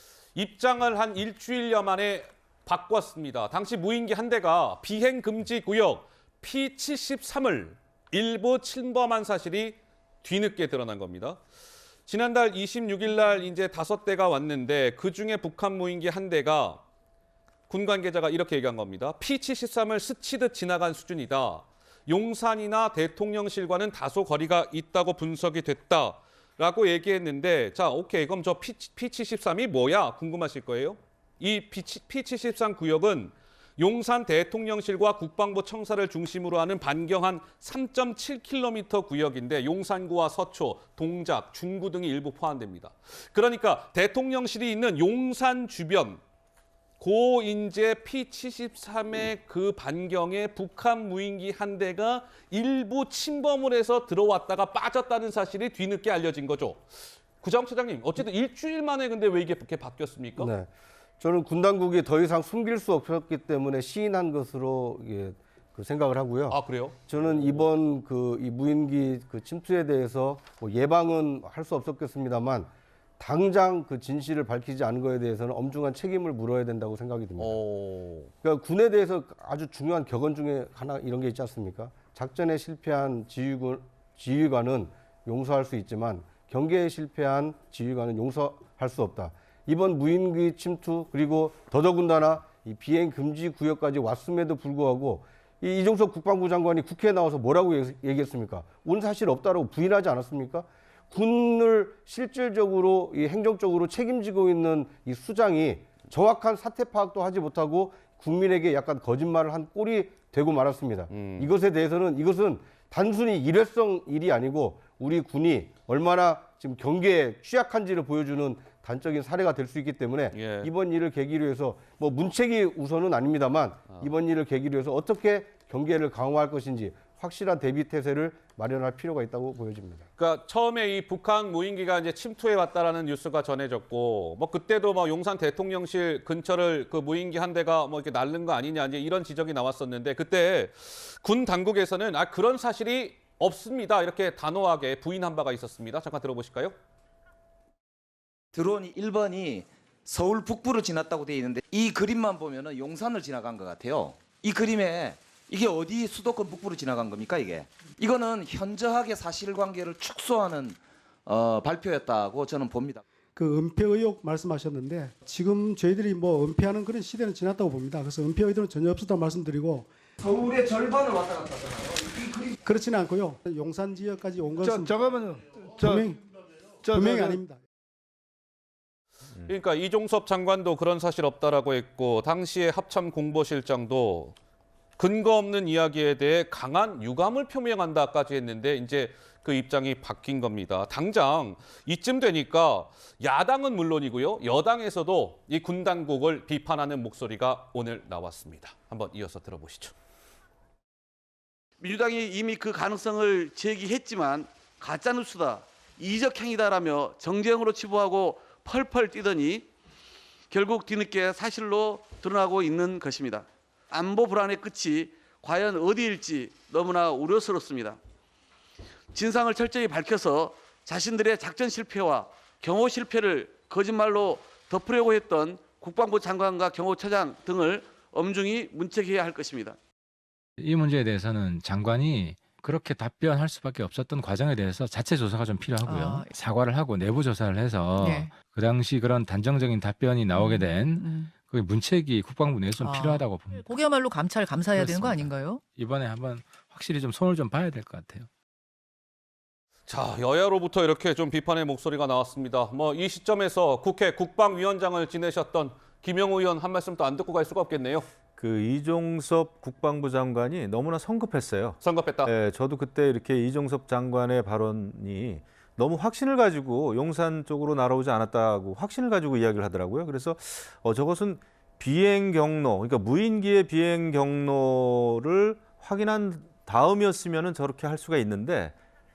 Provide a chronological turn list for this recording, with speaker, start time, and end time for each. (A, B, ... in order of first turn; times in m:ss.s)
0:00.4-0:11.4 A
0:12.1-0:16.8 A
0:17.7-0:46.2 A
0:47.0-0:56.8 A
0:57.4-1:00.5 A
1:00.4-1:00.7 B
1:01.2-1:17.6 B
1:06.5-1:07.7 A
1:17.4-1:18.3 A
1:18.4-2:10.0 B
1:51.1-1:51.5 A
2:00.3-2:00.7 A
2:10.2-2:26.7 A
2:28.5-2:43.0 C
2:43.4-2:49.9 D
2:50.2-2:52.5 C
2:52.6-2:55.0 D
2:54.5-2:56.1 E
2:55.8-2:56.2 D
2:56.8-2:57.4 E
2:56.9-2:57.6 D
2:59.4-3:04.3 A
3:05.0-3:19.9 A
3:21.8-3:29.6 F
3:30.5-3:38.0 F
3:39.1-3:49.7 F
3:50.6-4:03.8 G
3:55.8-3:56.4 H
3:58.0-3:58.3 H
4:00.3-4:01.3 H
4:02.8-4:05.6 H
4:04.7-4:08.3 G
4:09.9-4:18.0 A
4:18.4-4:38.7 I
4:21.8-4:22.3 A